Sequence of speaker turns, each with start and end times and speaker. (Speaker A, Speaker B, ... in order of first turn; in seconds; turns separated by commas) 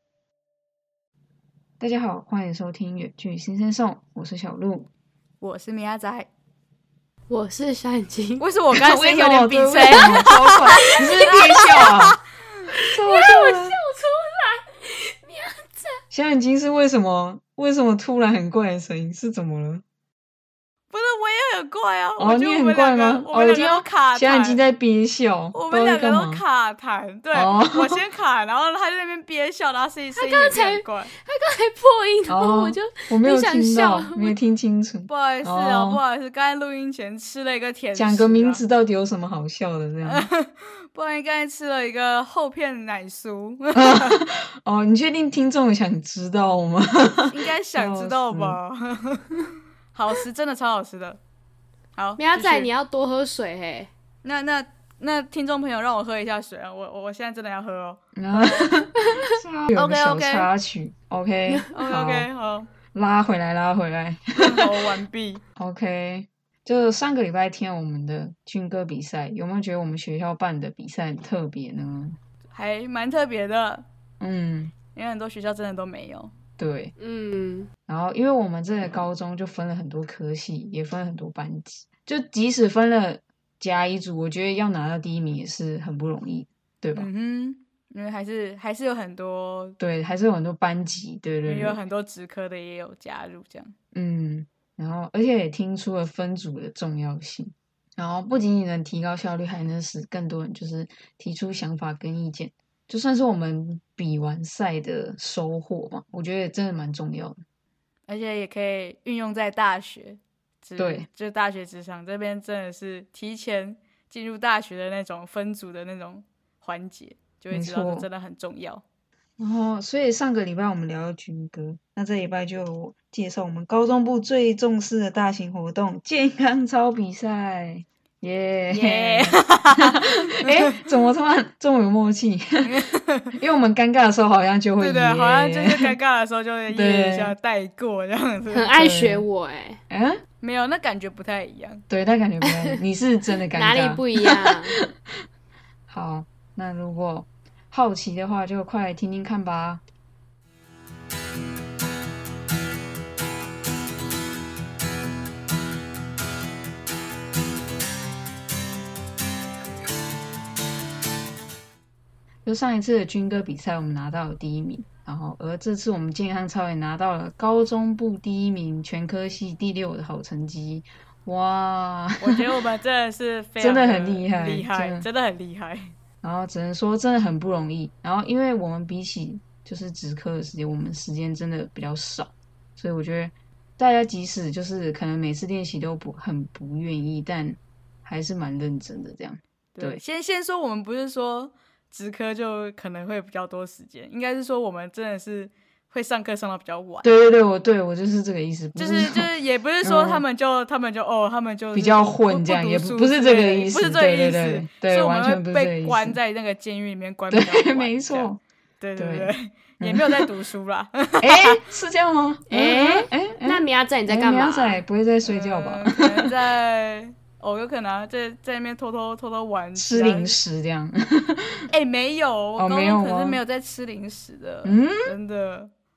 Speaker A: 1.8-4.9, Speaker B: 5.4-6.3, Speaker C: 7.3-8.4, Speaker B: 8.4-12.2, Speaker A: 8.7-12.2, Speaker C: 10.7-11.7, Speaker A: 12.9-13.8, Speaker C: 13.0-16.0, Speaker A: 16.1-19.8, Speaker B: 20.9-24.6, Speaker A: 22.2-26.4, Speaker B: 25.5-31.1, Speaker A: 27.3-28.0, Speaker C: 30.1-34.4, Speaker A: 32.3-36.0, Speaker B: 35.1-38.6, Speaker A: 37.9-40.3, Speaker B: 40.0-44.2, Speaker A: 43.7-48.6, Speaker B: 47.3-51.2, Speaker B: 52.0-52.7, Speaker C: 52.2-53.9, Speaker B: 54.2-58.8, Speaker A: 58.2-62.3, Speaker B: 59.7-60.5, Speaker B: 61.7-62.7, Speaker A: 62.9-64.8, Speaker B: 64.4-65.4, Speaker A: 65.6-72.2, Speaker B: 72.5-73.8, Speaker A: 74.2-74.7, Speaker B: 74.8-76.3, Speaker A: 76.6-76.9, Speaker C: 77.0-77.7, Speaker A: 77.9-87.1, Speaker B: 86.9-89.8, Speaker A: 89.8-91.8, Speaker B: 91.4-93.7, Speaker A: 93.9-107.4, Speaker B: 108.1-118.8, Speaker A: 110.8-111.1, Speaker A: 117.5-118.1, Speaker A: 119.4-132.8, Speaker B: 128.7-129.9, Speaker B: 130.5-130.8, Speaker B: 132.6-133.3, Speaker A: 133.3-135.9, Speaker B: 134.8-138.8, Speaker A: 136.7-137.3, Speaker C: 138.5-139.8, Speaker A: 138.8-139.2, Speaker A: 139.9-140.2, Speaker B: 140.4-141.8, Speaker A: 141.9-145.1, Speaker C: 142.4-142.8, Speaker C: 143.5-144.8, Speaker A: 145.9-149.8, Speaker A: 162.4-172.4, Speaker B: 172.2-175.9, Speaker A: 173.6-175.1, Speaker A: 176.2-190.0, Speaker B: 189.8-197.1, Speaker A: 197.0-200.2, Speaker B: 198.8-211.6, Speaker A: 201.7-206.2, Speaker A: 207.3-208.4, Speaker A: 209.0-210.3, Speaker A: 211.2-216.3, Speaker C: 212.5-214.8, Speaker B: 215.2-220.4, Speaker A: 219.8-221.7, Speaker B: 221.7-225.7, Speaker A: 222.6-223.4, Speaker A: 224.6-225.1